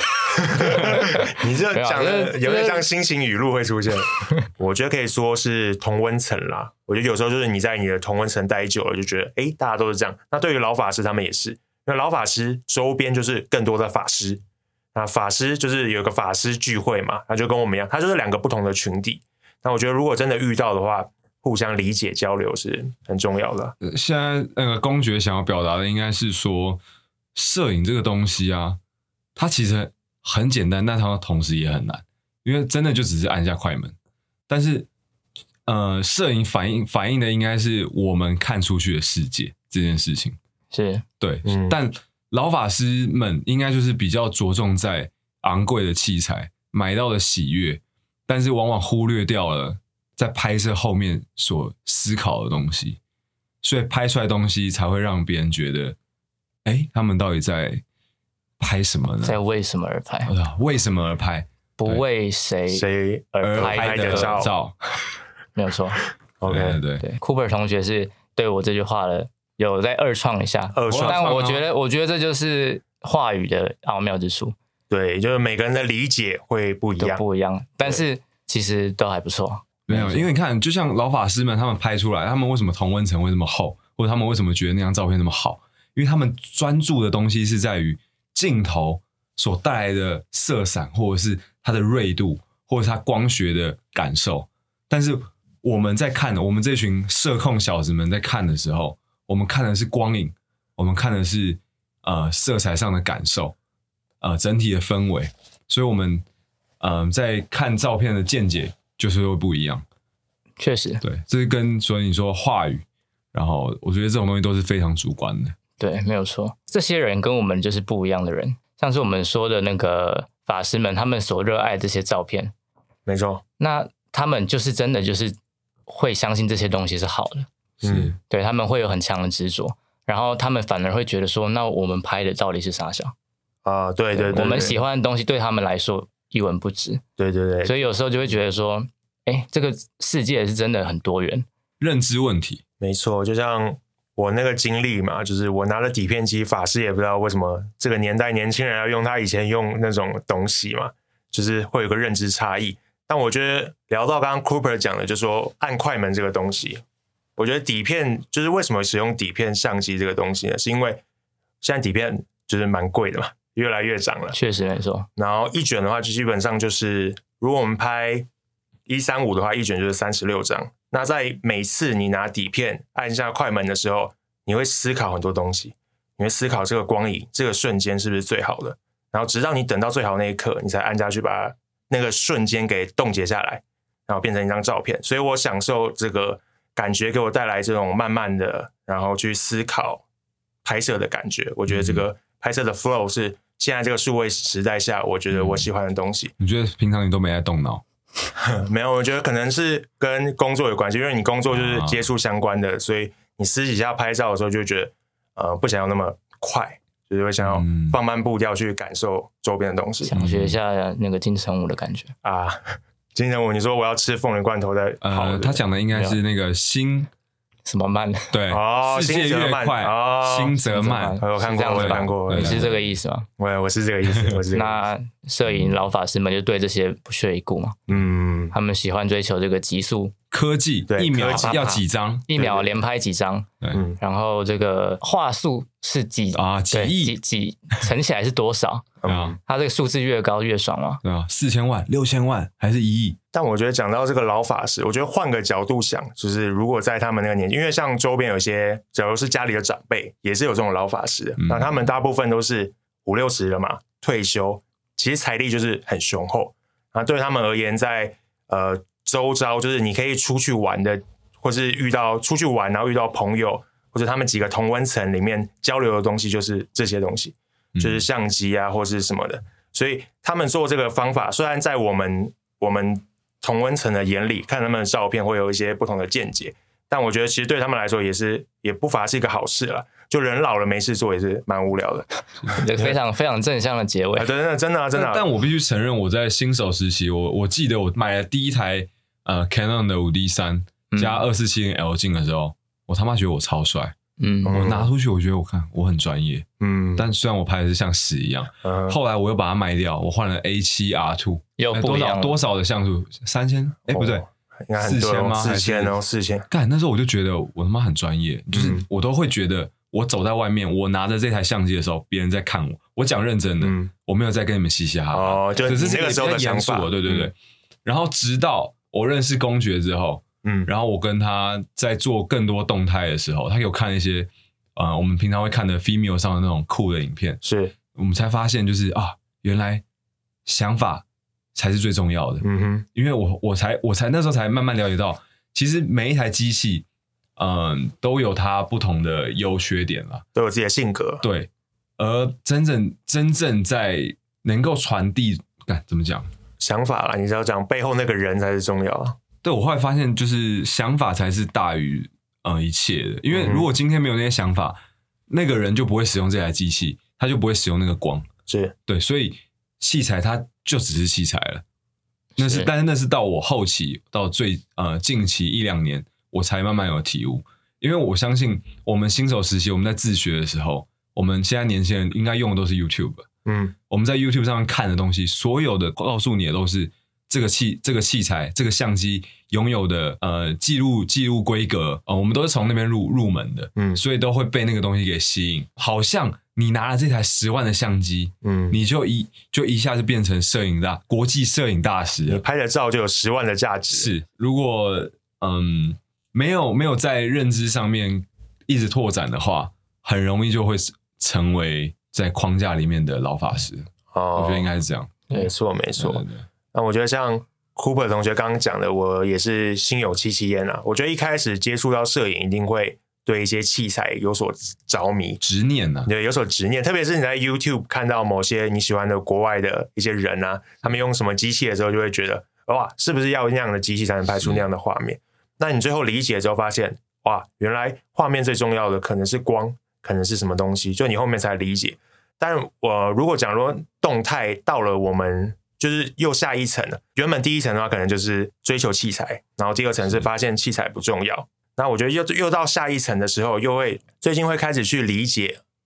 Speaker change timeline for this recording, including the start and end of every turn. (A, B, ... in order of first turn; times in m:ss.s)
0:00.3-0:14.4 A
0:00.7-0:02.8 B
0:14.9-0:23.7 A
0:23.8-0:26.8 C
0:27.3-0:28.8 C
0:29.4-0:33.9 C
0:34.5-0:34.9 C
0:35.6-0:40.4 C
0:40.7-0:41.0 B
0:41.2-0:53.0 C
0:41.4-0:41.8 A
0:53.6-0:56.0 C
0:56.6-0:57.8 C
0:58.6-0:59.4 C
0:59.2-1:00.3 B
1:00.2-1:02.0 C
1:01.8-1:02.8 B
1:02.7-1:04.5 A
1:03.4-1:04.4 B
1:03.4-1:04.8 C
1:05.5-1:06.0 B
1:06.4-1:06.8 A
1:06.4-1:07.0 C
1:07.0-1:14.5 B
1:10.7-1:11.2 A
1:10.9-1:11.6 C
1:14.9-1:17.2 A
1:17.0-1:20.3 B
1:19.9-1:43.5 C
1:44.2-1:46.2 C
1:46.8-1:49.8 C
1:50.6-1:51.0 B
1:51.0-1:55.6 C
1:55.8-2:02.5 B
2:03.0-2:03.4 A
2:03.6-2:05.4 B
2:05.9-2:07.5 B
2:07.8-2:08.1 C
2:07.8-2:08.2 A
2:08.3-2:13.1 B
2:13.6-2:14.8 A
2:14.1-2:17.0 B
2:17.2-2:17.7 A
2:17.6-2:21.4 B
2:21.8-2:22.6 C
2:22.8-2:36.8 A
2:37.4-2:41.0 A
2:41.6-2:44.3 A
2:44.3-2:45.1 B
2:45.2-2:48.3 A
2:48.9-3:10.0 A
3:10.6-3:16.3 A
3:11.7-3:12.0 C
3:15.3-3:15.7 C
3:16.4-3:17.8 C
3:18.4-3:30.1 A
3:21.5-3:22.0 C
3:27.4-3:28.0 C
3:30.0-3:32.1 B
3:30.1-3:30.6 C
3:32.2-3:35.6 A
3:35.0-3:37.1 C
3:37.6-3:38.3 B
3:38.3-3:43.0 C
3:38.5-3:40.6 A
3:40.7-3:43.3 B
3:41.2-3:42.6 A
3:43.4-3:44.8 A
3:44.5-3:47.8 B
3:45.5-3:45.8 C
3:47.9-3:48.5 A
3:48.5-3:50.1 B
3:50.3-3:52.2 C
3:50.9-3:51.8 A
3:51.3-3:51.7 B
3:52.3-3:53.5 B
3:52.3-3:52.7 A
3:53.7-3:54.0 A
3:54.0-4:01.0 B
3:56.3-3:57.2 C
3:59.0-3:59.4 A
3:59.0-3:59.4 C
4:01.0-4:03.2 C
4:03.3-4:43.0 A
4:11.4-4:11.9 C
4:27.8-4:28.0 C
4:42.5-4:44.3 B
4:44.2-4:45.3 A
4:44.9-4:53.9 C
4:50.9-4:51.2 B
4:54.2-4:54.6 B
4:54.4-4:54.9 A
4:54.5-4:56.4 C
4:56.6-4:57.1 A
4:57.0-5:04.2 C
4:58.6-4:59.0 A
5:01.6-5:02.4 B
5:03.9-5:06.5 A
5:04.8-5:06.0 C
5:06.5-5:17.3 C
5:08.5-5:08.8 A
5:13.6-5:13.9 A
5:15.1-5:17.3 A
5:17.8-5:27.4 C
5:20.4-5:20.7 A
5:27.4-5:27.7 A
5:27.9-5:29.8 C
5:30.4-5:31.0 C
5:31.5-5:40.2 C
5:32.4-5:32.8 A
5:40.3-5:41.2 A
5:41.2-5:46.3 C
5:46.6-5:49.2 A
5:49.4-5:54.8 C
5:53.3-5:53.7 A
5:55.3-5:58.3 C
5:58.5-5:58.7 A
5:58.9-6:01.6 C
6:02.4-6:13.3 C
6:02.4-6:02.7 B
6:13.4-6:13.7 A
6:13.9-6:32.4 C
6:23.7-6:24.0 A
6:28.4-6:28.8 A
6:32.3-6:34.1 A
6:33.9-6:45.2 C
6:44.1-6:44.7 A
6:45.3-6:55.4 A
6:46.0-6:46.4 C
6:55.4-6:56.1 C
6:56.0-7:25.6 A
7:04.3-7:04.7 C